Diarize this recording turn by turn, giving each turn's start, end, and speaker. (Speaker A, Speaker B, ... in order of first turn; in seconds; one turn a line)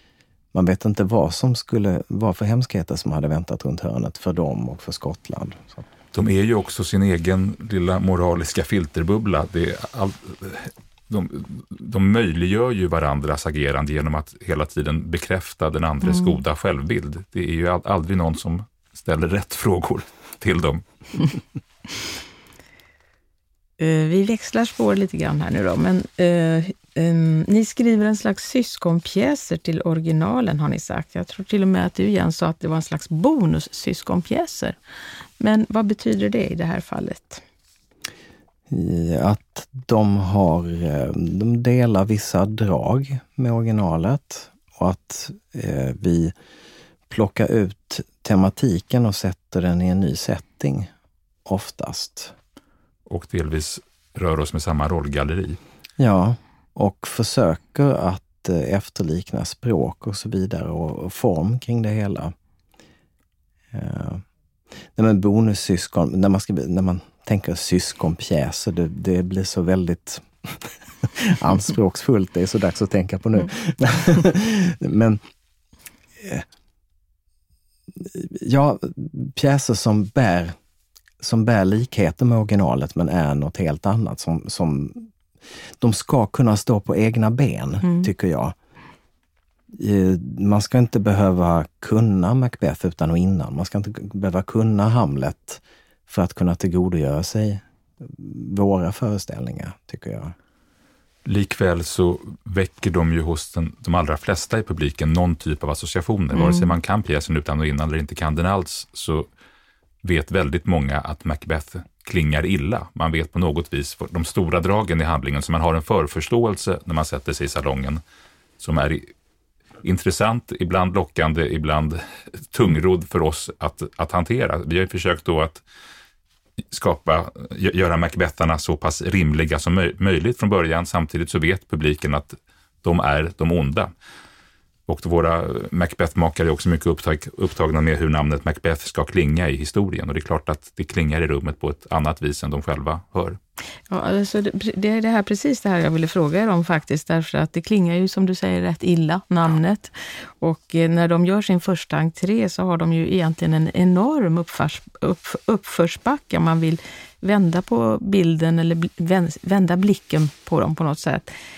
Speaker A: 0.5-5.9
Speaker B: 6.1-21.3
Speaker C: 23.8-34.8
Speaker C: 35.4-37.4
Speaker A: 38.7-46.3
Speaker A: 47.1-50.9
Speaker A: 51.5-52.4
Speaker B: 53.1-55.6
Speaker A: 56.0-62.3
Speaker A: 63.7-64.2
Speaker A: 65.0-75.2
Speaker A: 76.2-76.5
Speaker A: 78.0-80.5
Speaker A: 81.2-85.1
Speaker A: 85.8-88.5
Speaker C: 87.8-88.1
Speaker A: 89.7-100.3
Speaker B: 101.2-109.3
Speaker C: 106.3-106.7
Speaker B: 110.0-118.0
Speaker B: 118.6-119.1
Speaker B: 119.8-125.6
Speaker B: 126.7-133.9
Speaker B: 134.9-143.4
Speaker C: 143.9-161.3